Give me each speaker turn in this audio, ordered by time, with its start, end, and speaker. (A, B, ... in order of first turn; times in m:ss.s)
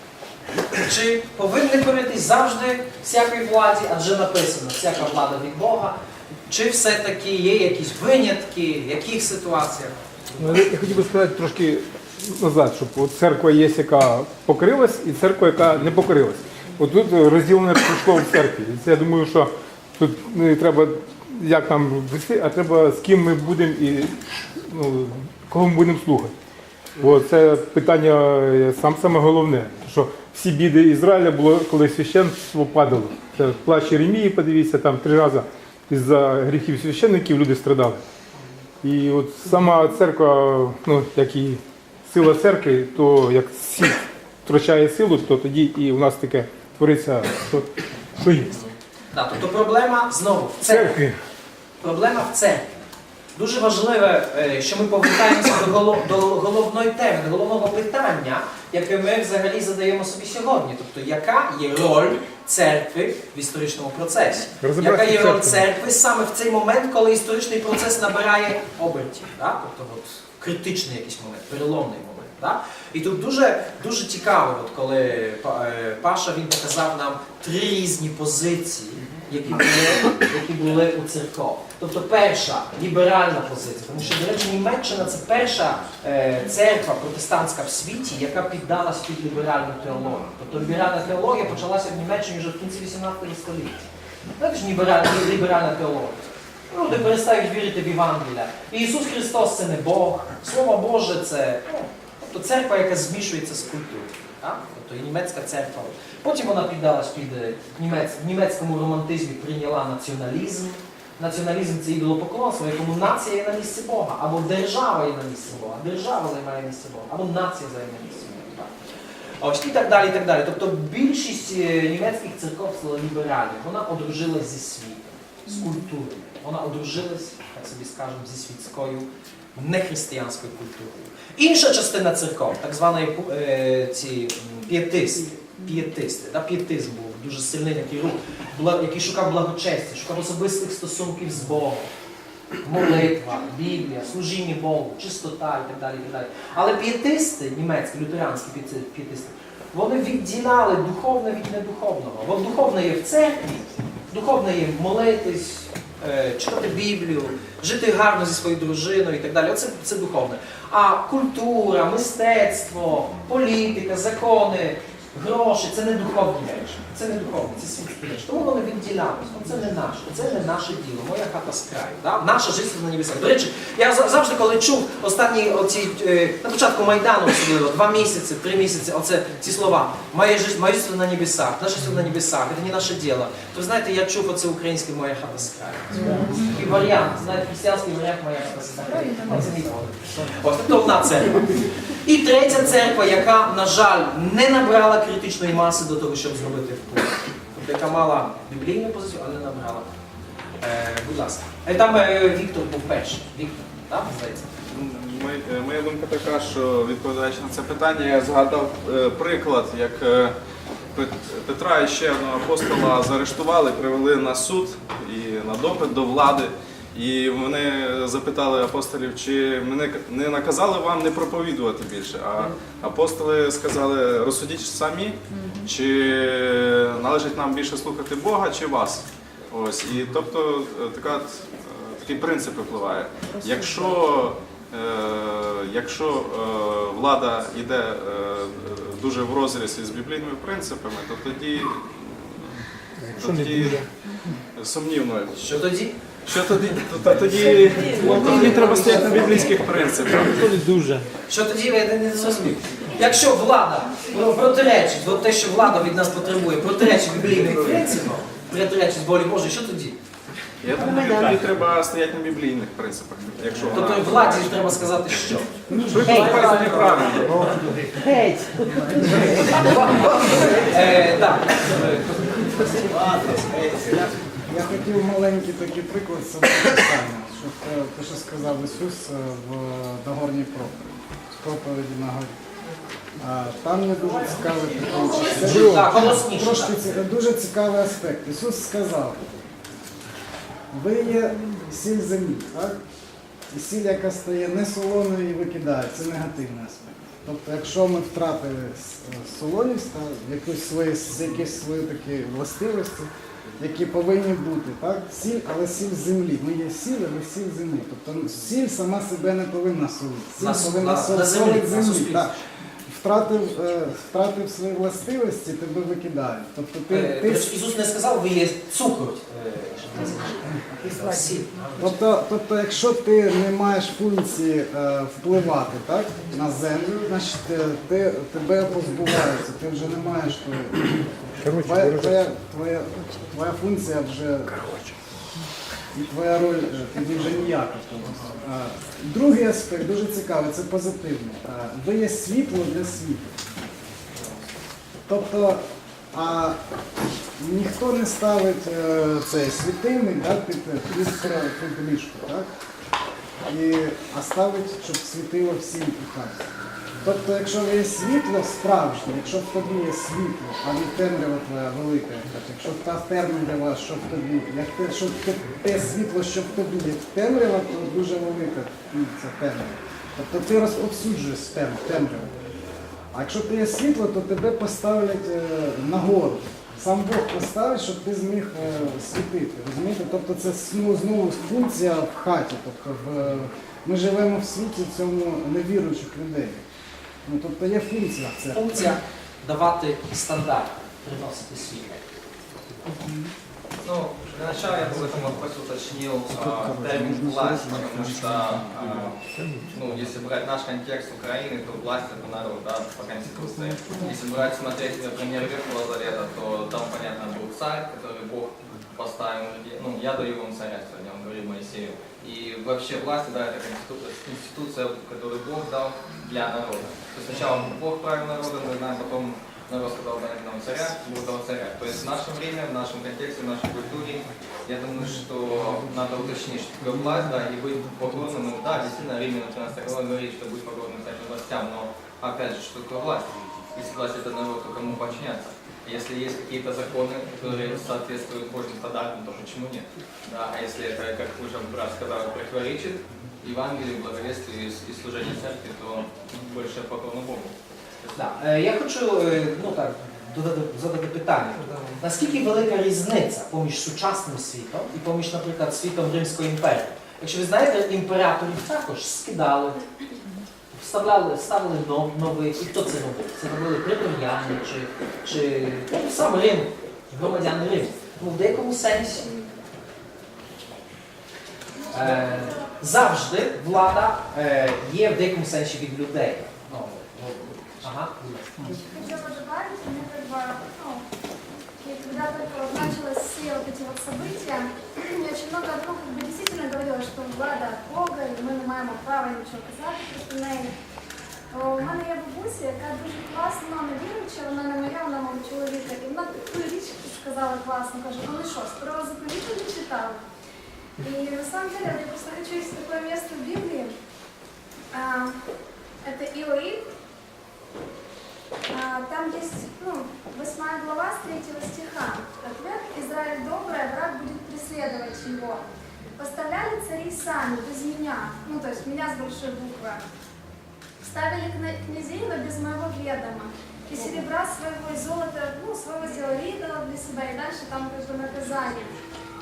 0:00.7-0:05.9 A
0:06.5-0:10.0 A
0:10.4-0:26.3 B
0:27.0-0:38.0 B
0:38.8-0:47.7 B
0:48.2-0:48.5 B
0:49.1-0:51.0 A
0:50.7-0:51.2 B
0:51.8-0:52.8 A
0:53.3-1:33.9 A
1:04.6-1:05.6 B
1:34.4-1:58.7 A
1:59.4-2:21.9 A
2:22.6-3:19.9 A
3:20.6-3:24.5 A
3:24.7-3:30.3 C
3:30.9-4:03.9 C
4:03.1-4:03.8 B
4:04.5-4:05.4 C
4:05.3-4:06.0 A
4:06.2-4:10.5 C
4:07.3-4:09.5 A
4:10.5-4:11.0 B
4:11.3-4:20.0 A
4:20.6-4:24.6 C
4:20.8-4:21.4 A
4:23.7-4:25.5 A
4:25.9-4:27.3 C
4:26.0-4:33.4 A
4:34.5-4:42.3 D
4:43.2-4:49.2 D
4:45.1-4:47.0 A
4:50.7-4:52.8 D
4:53.5-5:12.4 D
5:10.4-5:12.4 A
5:12.9-5:17.5 D
5:16.9-5:22.0 A
5:21.8-5:34.6 D
5:31.4-5:32.2 B
5:35.9-5:43.3 D
5:45.1-5:46.6 D
5:47.4-5:52.5 D
5:53.5-5:56.5 D
5:57.0-6:12.3 D
6:13.1-6:26.6 D
6:27.2-6:28.8 D
6:28.5-6:32.0 A
6:33.8-6:39.2 E
6:36.3-6:39.1 D
6:39.7-7:28.1 E
7:28.1-7:39.8 A
7:40.7-7:49.5 A
7:51.9-7:58.8 A
7:58.7-8:01.1 F
8:01.8-8:10.7 F
8:11.5-8:20.2 F
8:21.0-8:24.0 F
8:24.9-8:25.4 F
8:26.0-8:26.8 F
8:28.7-8:35.6 F
8:36.2-8:40.0 F
8:41.0-8:49.0 F